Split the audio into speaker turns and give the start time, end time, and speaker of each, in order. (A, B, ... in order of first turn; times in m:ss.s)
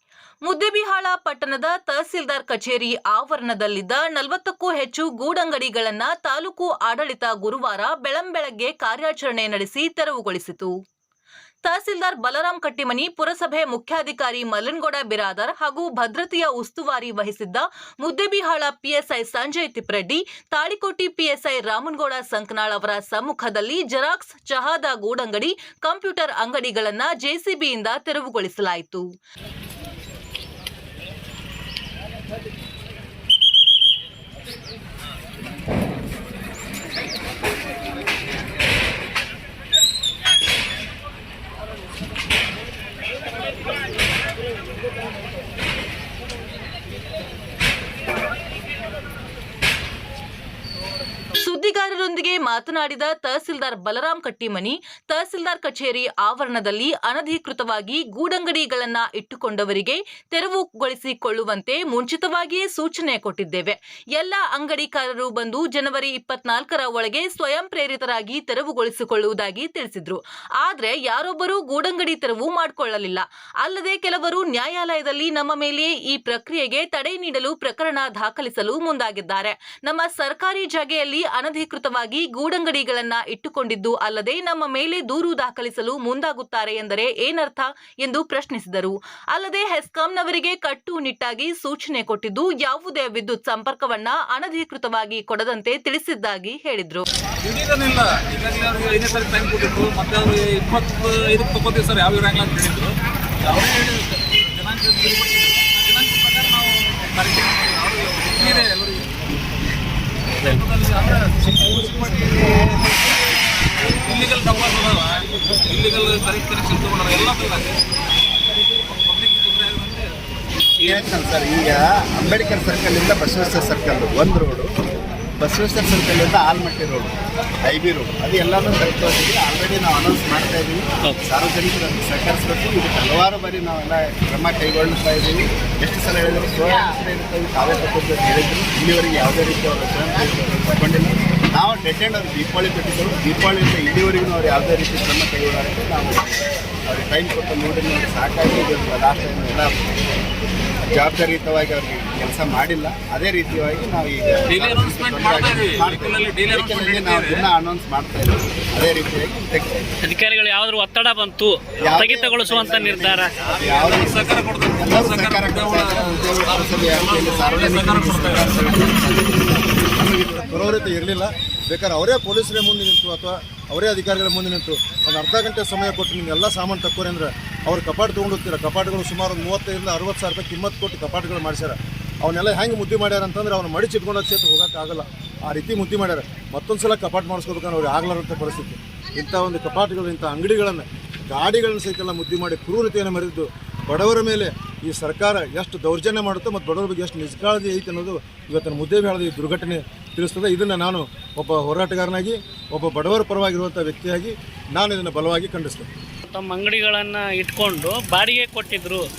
0:00.4-0:10.7 A
0:11.6-0:29.0 A
0:51.4-1:37.1 A
1:37.4-1:42.9 B
1:43.4-1:49.1 B
1:50.4-1:53.2 B
1:53.8-1:57.8 B
1:59.0-2:00.1 B
2:00.8-2:04.7 C
2:05.4-2:29.9 C
2:30.9-2:39.9 C
2:34.5-2:37.4 B
2:40.0-2:43.4 D
2:41.8-2:49.6 C
2:43.5-2:48.7 B
2:50.0-3:25.9 E
3:26.3-3:29.0 D